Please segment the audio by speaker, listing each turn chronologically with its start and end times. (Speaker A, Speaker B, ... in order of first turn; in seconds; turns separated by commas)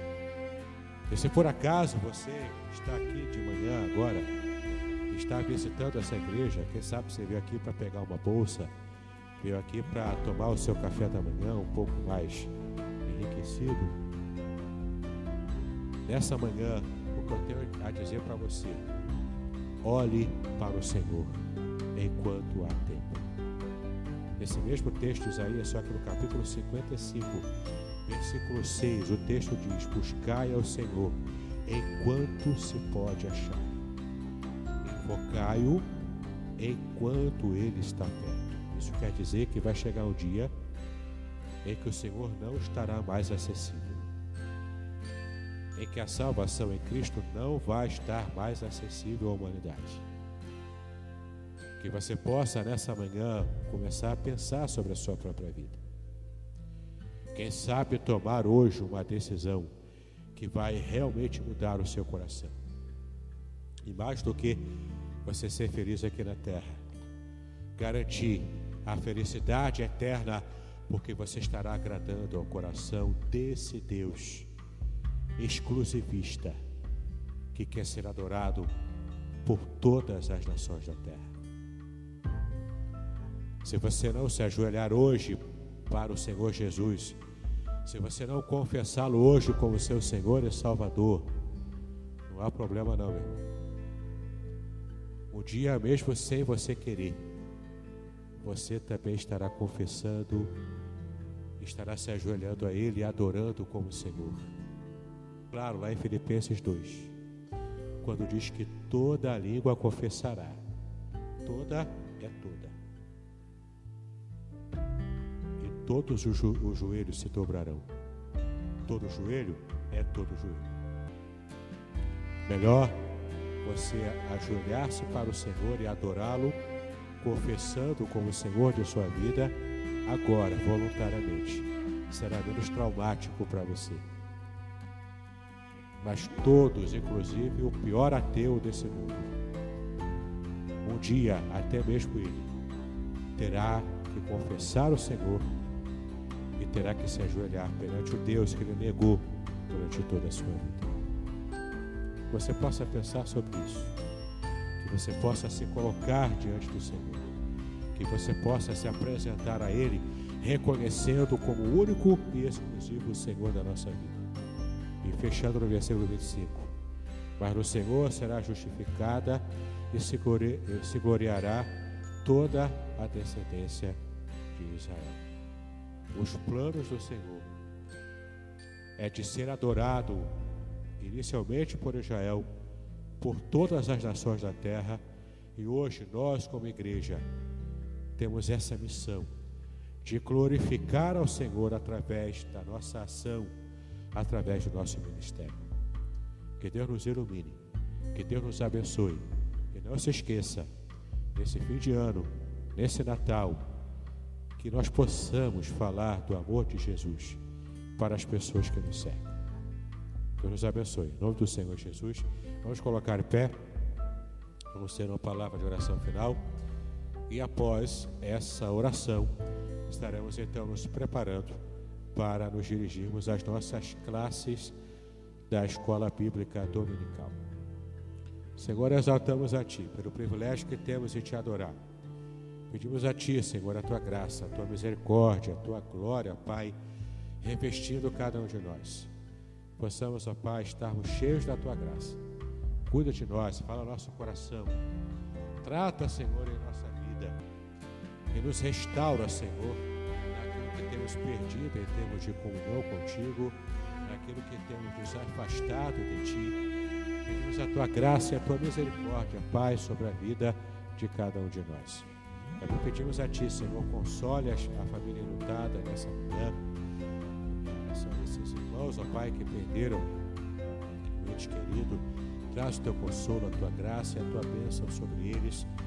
Speaker A: 1.1-4.3, Speaker A: 5.1-8.7, Speaker A: 9.4-12.5, Speaker A: 13.1-14.0, Speaker A: 16.1-18.9, Speaker A: 19.8-23.3, Speaker A: 24.4-27.5, Speaker A: 28.1-33.8, Speaker A: 34.8-35.9, Speaker A: 36.6-40.5, Speaker A: 41.6-44.1, Speaker A: 45.8-50.0, Speaker A: 51.8-55.8, Speaker A: 57.3-59.7, Speaker A: 60.3-62.6, Speaker A: 63.9-64.7, Speaker A: 65.2-66.8, Speaker A: 67.8-74.5, Speaker A: 75.4-76.6, Speaker A: 77.5-78.7, Speaker A: 79.4-81.3, Speaker A: 83.6-87.2, Speaker A: 87.8-91.3, Speaker A: 92.3-93.4, Speaker A: 95.3-97.3, Speaker A: 98.4-100.5, Speaker A: 101.6-104.5, Speaker A: 105.5-107.2, Speaker A: 108.0-110.6, Speaker A: 111.4-112.8, Speaker A: 115.6-117.9, Speaker A: 118.8-120.8, Speaker A: 122.5-126.6, Speaker A: 127.2-134.1, Speaker A: 136.0-139.4, Speaker A: 140.8-142.5, Speaker A: 143.4-145.5, Speaker A: 146.6-150.9, Speaker A: 152.3-154.0, Speaker A: 154.8-157.3, Speaker A: 157.9-164.3, Speaker A: 165.0-166.7, Speaker A: 167.4-174.0, Speaker A: 174.5-175.2, Speaker A: 176.1-177.5, Speaker A: 179.0-180.3, Speaker A: 181.0-182.5, Speaker A: 183.2-185.0, Speaker A: 185.6-187.3, Speaker A: 188.2-189.3, Speaker A: 190.0-193.5, Speaker A: 194.1-195.7, Speaker A: 196.6-197.6, Speaker A: 198.1-200.7, Speaker A: 201.3-203.6, Speaker A: 204.6-207.4, Speaker A: 208.0-209.4, Speaker A: 210.4-213.6, Speaker A: 214.7-216.4, Speaker A: 217.3-219.3, Speaker A: 219.9-221.6, Speaker A: 222.1-224.8, Speaker A: 225.5-227.4, Speaker A: 228.6-231.8, Speaker A: 232.7-236.8, Speaker A: 237.4-239.1, Speaker A: 239.8-242.2, Speaker A: 242.9-244.8, Speaker A: 245.6-247.4, Speaker A: 248.3-256.6, Speaker A: 257.2-262.1, Speaker A: 262.6-266.6, Speaker A: 267.5-270.1, Speaker A: 270.9-275.7